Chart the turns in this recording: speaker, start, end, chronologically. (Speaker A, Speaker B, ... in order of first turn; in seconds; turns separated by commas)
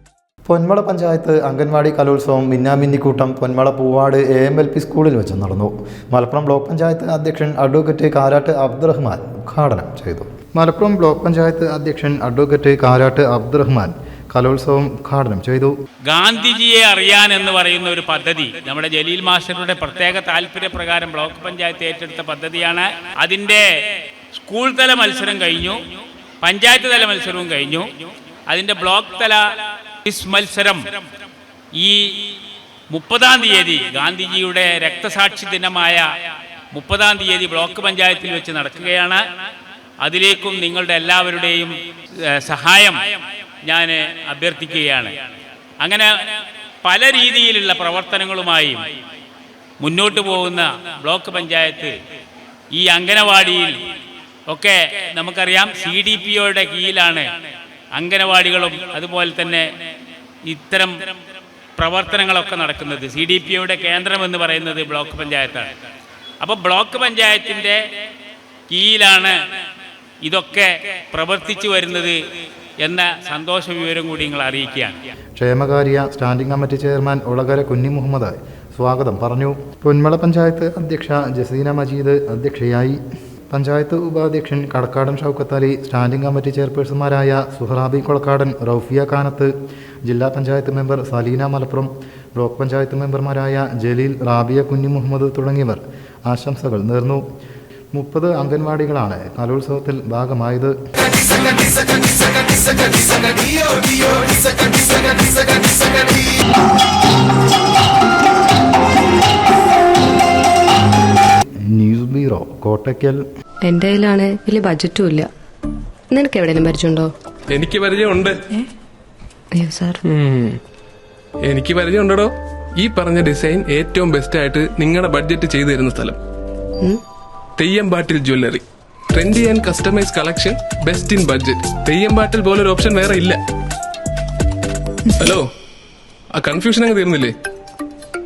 Speaker A: 0.5-15.7, Speaker B: 16.1-23.7, Speaker B: 24.3-25.8, Speaker B: 26.4-29.4, Speaker B: 30.1-31.0, Speaker B: 31.8-32.3, Speaker B: 32.9-36.1, Speaker B: 36.7-39.2, Speaker B: 40.0-41.7, Speaker B: 42.3-43.0, Speaker B: 43.6-45.1, Speaker B: 45.8-46.3, Speaker B: 46.8-48.9, Speaker B: 49.8-51.9, Speaker B: 52.8-53.7, Speaker B: 54.5-57.3, Speaker B: 58.0-59.7, Speaker B: 60.5-61.0, Speaker B: 61.8-65.7, Speaker B: 66.4-67.8, Speaker B: 68.7-69.3, Speaker B: 70.2-72.2, Speaker B: 72.8-75.0, Speaker A: 75.4-89.5, Speaker A: 90.0-97.2, Speaker A: 97.9-100.8, Speaker A: 111.7-113.2, Speaker C: 113.6-115.3, Speaker C: 116.1-117.1, Speaker D: 117.5-118.4, Speaker C: 119.5-120.0, Speaker D: 120.1-120.6, Speaker D: 121.4-126.2, Speaker D: 127.6-133.4, Speaker D: 135.1-135.5, Speaker D: 136.3-137.3